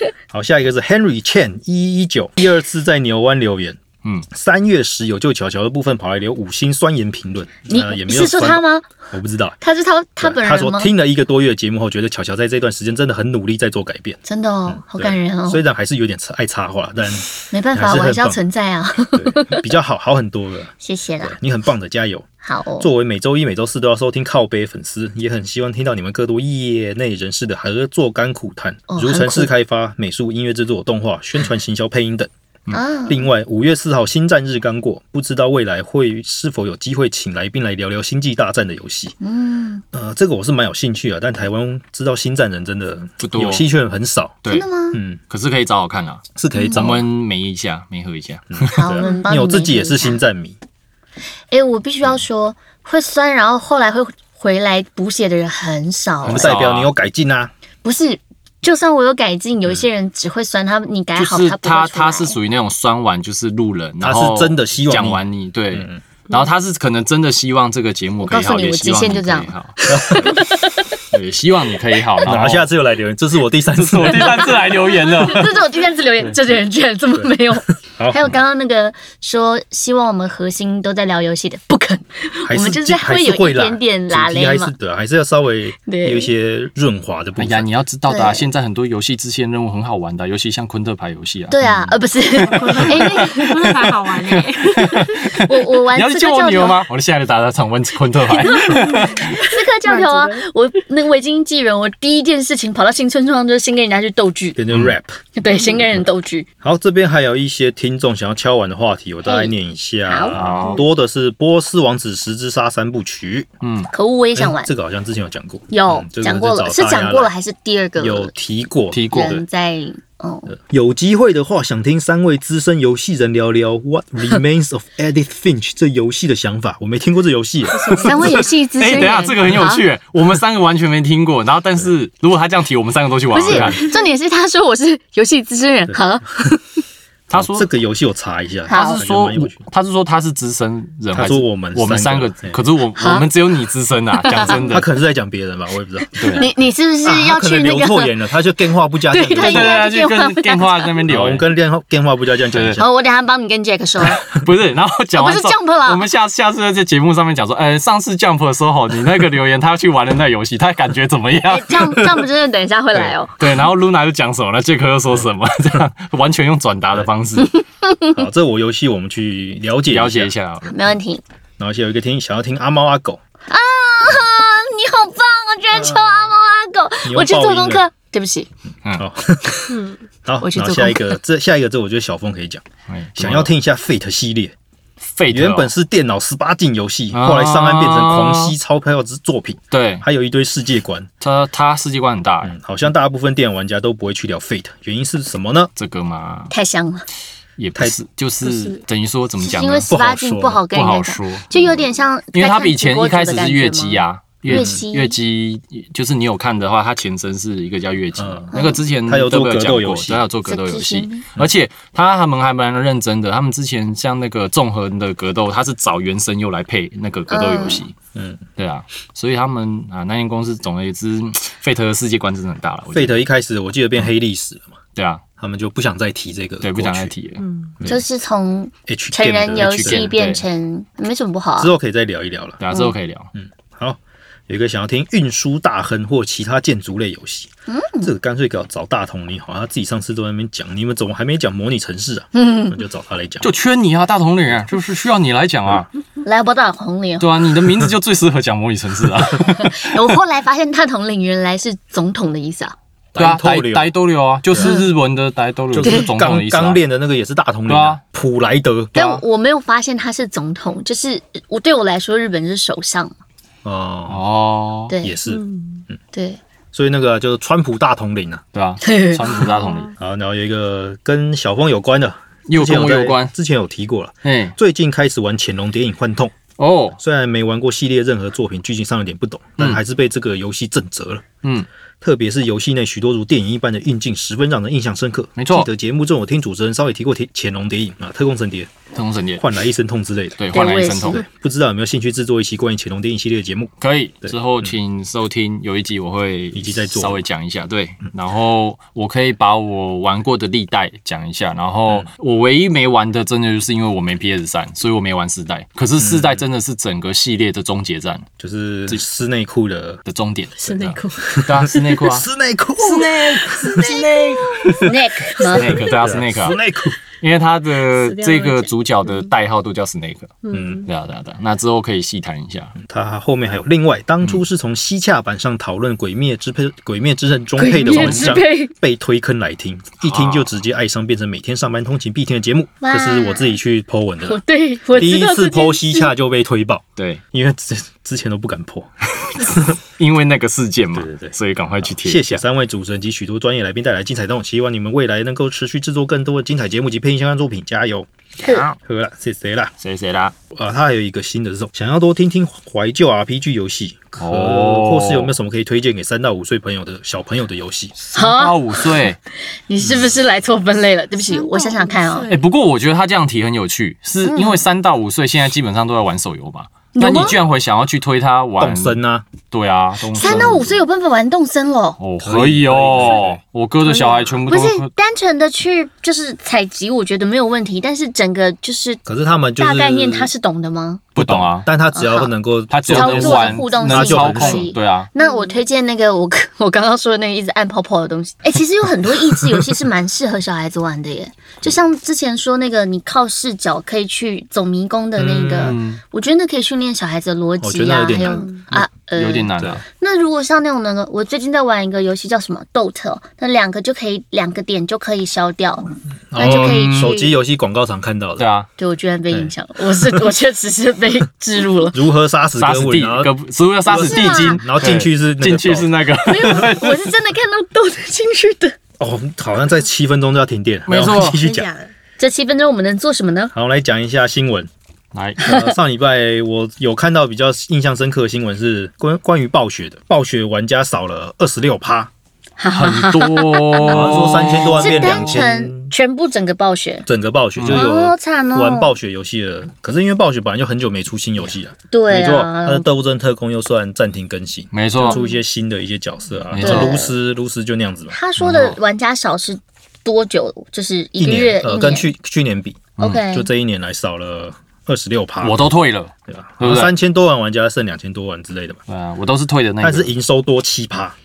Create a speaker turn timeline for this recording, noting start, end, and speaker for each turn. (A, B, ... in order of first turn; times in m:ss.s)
0:00.3-0:03.8 A
0:04.3-0:09.6 A
0:07.7-0:08.9 B
0:09.6-0:10.9 B
0:10.2-0:18.4 A
0:14.2-0:15.6 B
0:17.5-0:19.6 B
0:19.1-0:22.3 A
0:20.8-0:21.4 B
0:22.4-0:22.9 B
0:22.8-0:32.3 A
0:28.9-0:29.5 B
0:32.7-0:33.3 B
0:33.1-0:39.2 A
0:39.2-0:39.8 B
0:39.9-0:45.2 A
0:43.2-0:43.7 C
0:44.5-0:45.0 B
0:45.2-0:48.8 C
0:46.4-0:47.0 A
0:46.5-0:46.9 B
0:48.5-0:50.6 A
0:48.7-0:50.2 B
0:51.5-0:56.5 B
0:56.2-0:56.9 C
0:56.2-0:57.5 A
0:57.8-1:02.4 B
1:01.2-1:10.3 C
1:04.0-1:06.0 A
1:08.2-1:11.0 B
1:09.9-1:10.3 A
1:11.1-1:12.7 C
1:12.2-1:14.7 A
1:13.7-1:15.6 C
1:14.6-1:24.7 B
1:18.0-1:18.2 A
1:22.4-1:27.7 A
1:25.9-1:26.3 B
1:27.4-1:39.4 C
1:28.1-1:28.4 B
1:31.5-1:34.0 B
1:32.4-1:35.2 D
1:34.8-1:36.8 B
1:38.3-1:44.6 B
1:38.6-1:40.4 D
1:44.6-1:45.2 A
1:45.4-1:46.5 B
1:46.6-1:53.5 A
1:49.2-1:49.5 B
1:50.1-1:50.8 B
1:50.3-1:50.8 C
1:53.6-1:53.9 C
1:53.9-1:54.7 B
1:54.4-1:57.3 A
1:55.7-1:58.3 B
1:58.0-1:59.4 A
1:58.9-1:59.4 C
1:59.1-2:00.5 B
2:00.5-2:08.4 A
2:07.9-2:09.8 B
2:07.9-2:08.4 D
2:08.2-2:13.9 C
2:13.3-2:16.8 B
2:13.5-2:13.8 A
2:17.3-2:17.7 C
2:17.3-2:19.6 A
2:18.7-2:19.0 B
2:18.7-2:24.8 C
2:21.1-2:22.6 A
2:23.0-2:23.3 B
2:24.2-2:24.7 B
2:24.5-2:26.5 A
2:26.2-2:26.5 C
2:26.2-2:28.1 B
2:27.0-2:29.8 A
2:29.1-2:30.9 B
2:29.3-2:31.4 C
2:31.1-2:32.9 A
2:32.5-2:32.8 C
2:32.8-2:34.3 B
2:34.0-2:42.2 C
2:35.2-2:36.0 B
2:41.4-2:43.4 B
2:43.4-2:47.5 C
2:47.5-2:48.1 B
2:48.1-2:50.3 A
2:49.9-2:50.7 C
2:50.7-2:51.2 B
2:51.6-2:53.2 A
2:53.5-2:58.5 B
2:55.8-2:56.0 A
2:57.0-2:57.8 A
2:59.0-3:02.6 A
2:59.7-3:00.0 D
3:00.4-3:01.2 B
3:02.9-3:03.5 C
3:03.2-3:04.5 A
3:05.0-3:05.7 C
3:05.3-3:11.1 A
3:07.1-3:08.6 C
3:09.7-3:10.0 C
3:11.2-3:12.6 C
3:12.4-3:15.7 A
3:15.8-3:16.5 C
3:16.5-3:17.0 B
3:17.6-3:20.0 C
3:19.4-3:25.2 B
3:19.9-3:20.6 A
3:20.6-3:37.9 C
3:24.5-3:24.8 A
3:28.2-3:28.5 A
3:28.5-3:28.8 B
3:29.0-3:30.2 A
3:30.4-3:31.2 B
3:37.3-3:37.8 B
3:38.1-3:38.4 A
3:38.6-3:43.2 C
3:42.9-3:44.7 A
3:45.0-3:45.2 C
3:45.4-3:47.1 A
3:46.6-3:48.0 C
3:47.4-3:47.7 D
3:47.8-3:51.7 B
3:48.9-3:50.1 A
3:49.5-3:50.4 C
3:51.6-3:52.6 A
3:52.6-3:53.3 C
3:53.3-4:03.5 A
3:57.7-3:58.1 B
4:02.3-4:02.8 B
4:03.4-4:05.9 C
4:06.2-4:07.3 B
4:07.2-4:10.2 C
4:09.4-4:12.7 B
4:13.1-4:13.9 A
4:13.2-4:16.8 C
4:14.6-4:14.9 B
4:15.7-4:18.9 A
4:17.7-4:18.0 C
4:18.9-4:19.2 C
4:18.9-4:23.1 B
4:23.6-4:24.2 A
4:24.1-4:25.0 C
4:24.9-4:25.2 B
4:25.0-4:26.0 A
4:25.2-4:25.8 D
4:26.1-4:26.4 B
4:26.7-4:28.4 A
4:28.5-4:29.9 C
4:28.8-4:29.5 B
4:29.3-4:29.9 D
4:30.0-4:36.3 A
4:32.5-4:33.3 C
4:34.2-4:34.5 C
4:36.6-4:37.0 C
4:37.0-4:41.2 A
4:42.0-4:48.7 A
4:45.4-4:45.7 C
4:48.9-4:49.4 C
4:49.4-4:50.4 A
4:50.4-4:51.2 C
4:50.5-4:51.2 B
4:51.1-4:54.7 A
4:53.8-5:08.3 C
4:56.5-4:57.2 A
5:06.0-5:06.4 A
5:08.4-5:10.0 A
5:10.0-5:12.2 C
5:10.6-5:11.8 D
5:11.2-5:14.9 A
5:12.8-5:15.6 D
5:14.8-5:15.8 B
5:15.5-5:16.6 C
5:15.7-5:17.0 A
5:17.2-5:22.7 C
5:17.9-5:19.3 D
5:20.4-5:20.8 D
5:20.5-5:20.8 A
5:22.8-5:34.4 A
5:27.6-5:28.7 B
5:27.9-5:28.4 C
5:30.0-5:30.5 C
5:32.8-5:33.6 B
5:34.2-5:36.1 B
5:34.9-5:39.8 A
5:37.0-5:37.2 C
5:39.8-5:42.4 C
5:40.9-5:48.1 A
5:48.4-5:48.8 C
5:48.4-5:48.7 B
5:48.8-5:49.7 A
5:49.8-5:50.3 C
5:50.5-5:57.9 A
5:54.2-5:55.4 C
5:58.1-5:59.0 B
5:58.1-5:59.2 C
5:59.7-6:02.3 B
6:01.3-6:02.4 D
6:02.3-6:10.8 C
6:04.2-6:04.6 B
6:06.9-6:07.3 B
6:07.0-6:07.4 A
6:08.6-6:09.2 A
6:10.1-6:12.0 B
6:12.0-6:14.9 C
6:12.2-6:13.4 A
6:13.9-6:19.0 B
6:19.0-6:20.3 A
6:19.6-6:21.0 B
6:21.1-6:24.7 A
6:21.2-6:21.7 C
6:21.9-6:22.3 B
6:22.7-6:25.1 C
6:22.9-6:47.4 B
6:25.2-6:25.5 D
6:35.2-6:35.8 A
6:35.6-6:36.0 C
6:37.6-6:38.9 A
6:38.2-6:38.6 D
6:39.1-6:39.8 C
6:46.3-6:48.4 A
6:48.4-6:48.7 C
6:48.8-6:52.0 B
6:51.9-6:53.3 A
6:52.6-6:57.1 C
6:53.9-6:55.9 A
6:53.9-6:54.6 B
6:56.2-6:58.8 B
6:59.0-7:01.7 A
7:00.9-7:01.4 C
7:01.2-7:01.9 D
7:02.2-7:03.5 B
7:03.5-7:04.7 A
7:05.1-7:05.5 C
7:05.4-7:12.1 A
7:05.4-7:05.7 B
7:12.6-7:17.0 B
7:12.7-7:15.4 C
7:13.8-7:15.9 A
7:17.0-7:28.1 A
7:17.6-7:17.9 C
7:17.7-7:18.9 B
7:21.9-7:22.8 B
7:24.7-7:25.2 C
7:25.0-7:25.4 B
7:26.5-7:27.0 C
7:26.6-7:27.1 B
7:28.1-7:32.1 B
7:28.4-7:28.8 C
7:31.2-7:35.6 A
7:33.0-7:33.2 C
7:33.0-7:33.5 B
7:35.4-7:36.9 C
7:36.3-7:38.8 A
7:38.9-7:40.1 C
7:39.8-7:41.2 A